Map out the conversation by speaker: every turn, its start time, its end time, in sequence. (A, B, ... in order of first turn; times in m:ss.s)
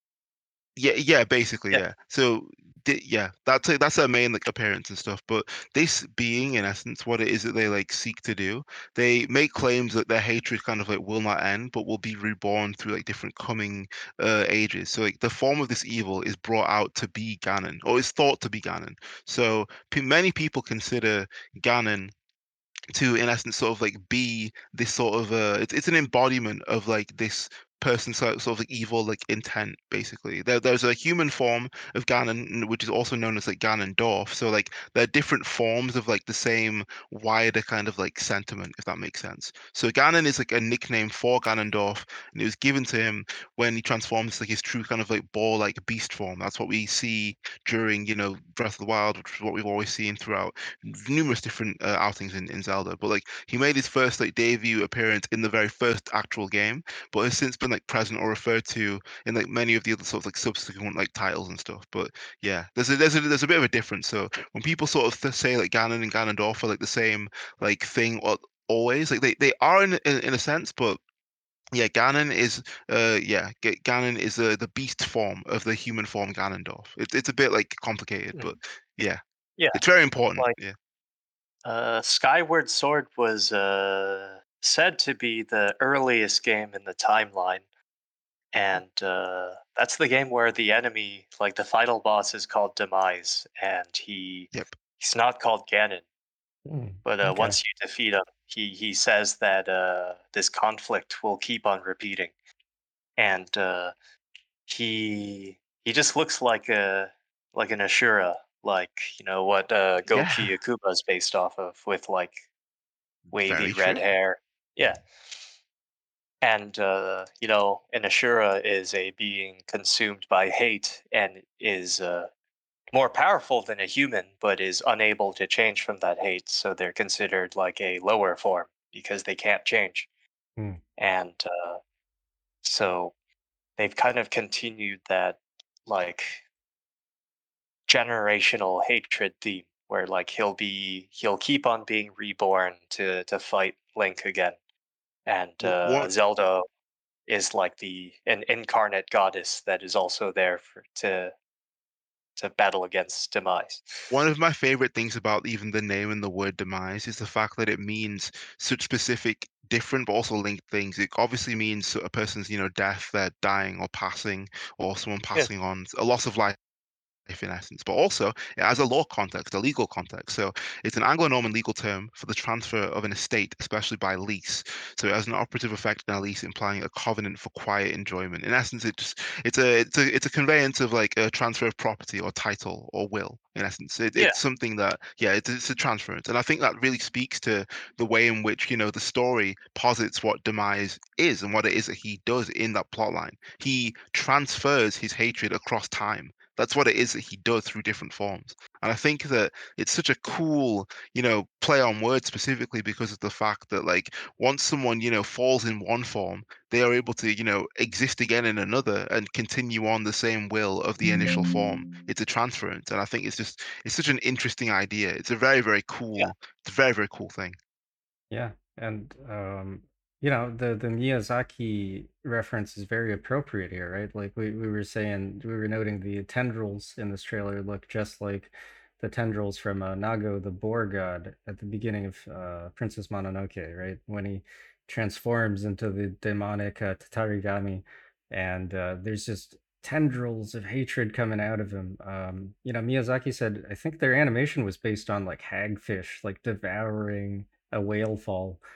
0:00.8-0:22.1 A
0:22.9-1:11.0 A
1:11.7-1:19.2 A
1:19.7-1:20.7 A
1:21.6-1:27.6 B
1:28.5-1:36.0 B
1:36.7-1:37.6 C
1:37.0-1:42.3 B
1:43.2-1:43.9 B
1:44.7-1:52.4 B
1:50.1-1:50.6 A
1:53.3-1:54.0 A
1:53.3-1:55.0 B
1:56.4-2:02.3 B
2:02.9-2:10.1 B
2:11.0-2:11.8 B
2:12.6-2:13.1 B
2:13.8-2:16.4 B
2:17.9-2:24.6 B
2:25.3-2:26.6 B
2:25.6-2:26.1 A
2:27.3-2:31.3 B
2:32.4-2:34.1 B
2:34.1-2:46.6 A
2:47.3-3:37.6 A
3:38.3-4:08.6 C